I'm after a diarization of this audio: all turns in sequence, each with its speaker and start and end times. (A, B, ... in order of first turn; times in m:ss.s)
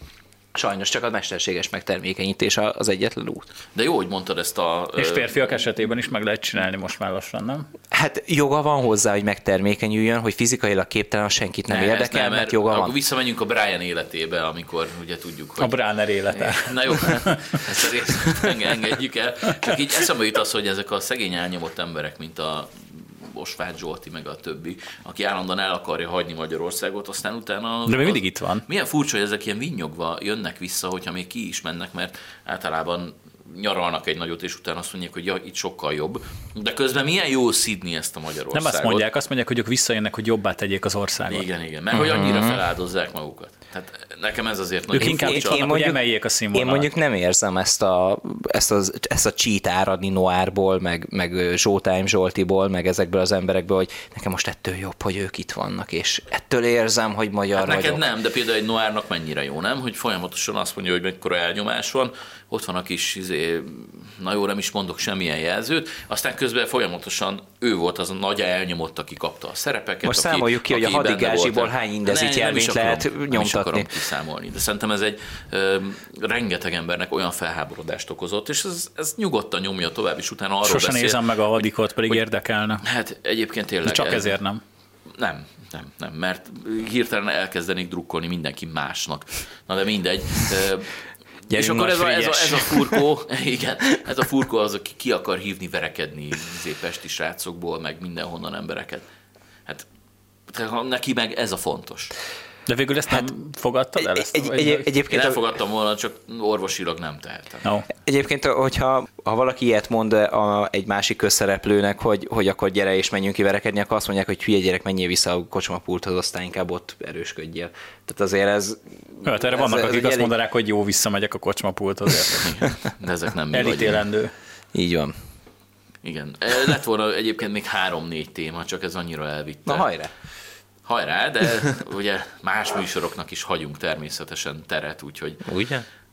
0:00.5-0:03.4 A
0:03.7-0:05.5 B
0:05.0-0:07.7 C
0:07.9-0:12.9 A
0:11.7-0:15.8 B
0:15.6-0:17.6 C
0:16.3-0:39.0 B
0:27.8-0:28.6 C
0:38.5-0:41.4 C
0:41.3-0:45.6 B
0:41.9-0:42.6 A
0:44.9-0:46.9 C
0:45.0-0:46.0 A
0:46.5-0:58.0 A
0:57.6-1:22.2 B
1:10.0-1:13.9 A
1:20.6-1:22.8 C
1:22.8-1:24.3 B
1:23.8-1:24.6 C
1:25.2-1:30.9 B
1:31.5-1:39.0 B
1:31.5-1:32.8 C
1:40.5-1:42.1 B
1:42.7-1:44.9 C
1:44.0-1:45.4 A
1:45.1-1:47.6 B
1:48.0-2:00.3 A
1:59.2-2:02.6 C
2:02.4-2:04.0 B
2:03.5-2:04.3 C
2:04.7-2:05.2 A
2:06.0-2:09.9 B
2:09.6-2:10.1 A
2:10.8-2:15.5 B
2:15.4-2:15.8 A